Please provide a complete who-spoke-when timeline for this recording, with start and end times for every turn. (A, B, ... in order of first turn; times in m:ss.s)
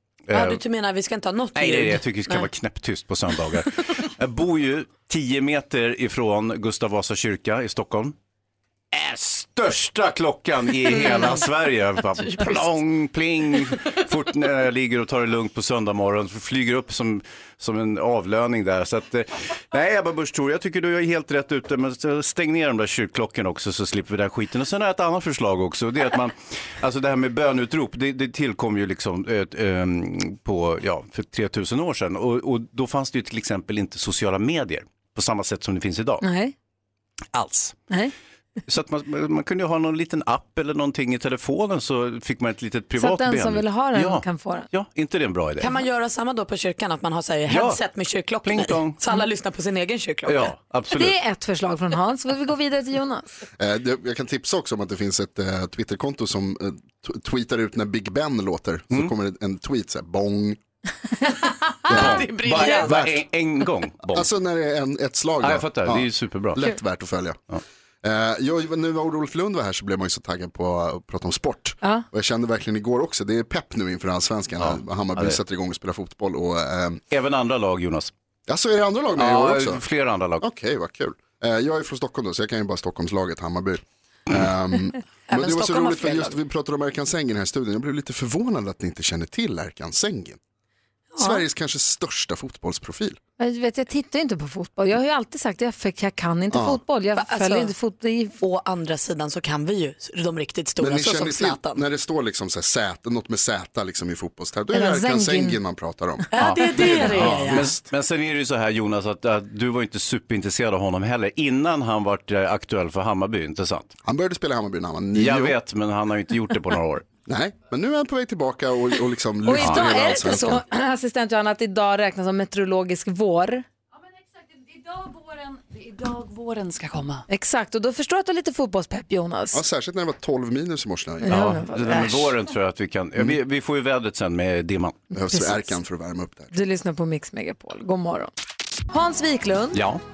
0:00.3-0:00.6 A
0:00.3-0:02.5 B
0:01.6-0:08.1 A
0:08.9-0:36.2 A
0:10.9-0:11.4 B
0:12.4-0:12.7 B
0:36.2-0:36.5 C
0:37.3-0:37.7 A
0:38.7-0:45.7 A
0:43.0-0:44.7 C
0:45.6-0:50.5 B
0:47.5-0:47.8 A
0:48.4-0:49.0 A
0:50.2-0:51.1 A
0:50.9-0:53.2 C
0:53.6-1:00.6 D
1:01.9-1:03.2 D
1:01.9-1:04.3 A
1:04.1-1:07.4 D
1:05.4-1:06.6 A
1:08.0-1:17.0 D
1:14.6-1:15.4 A
1:17.1-1:18.1 A
1:18.5-1:19.8 D
1:19.2-1:20.4 A
1:20.4-1:30.4 D
1:25.3-1:26.4 B
1:31.2-1:33.2 D
1:33.4-1:38.4 C
1:36.5-1:36.8 D
1:37.2-1:37.7 B
1:38.4-1:41.8 B
1:40.8-1:47.6 D
1:44.7-1:45.6 C
1:46.3-1:47.7 B
1:46.4-1:53.9 A
1:54.0-1:55.6 D
1:55.2-1:57.0 A
1:57.2-2:00.6 D
1:59.4-2:03.6 C
1:59.5-1:59.9 A
2:04.3-2:07.2 E
2:07.3-2:09.6 C
2:09.5-2:11.4 D
2:11.2-2:12.3 C
2:11.2-2:15.0 A
2:15.1-2:16.5 D
2:15.3-2:15.8 C
2:16.5-2:18.3 C
2:18.9-2:19.8 C
2:19.7-2:20.0 A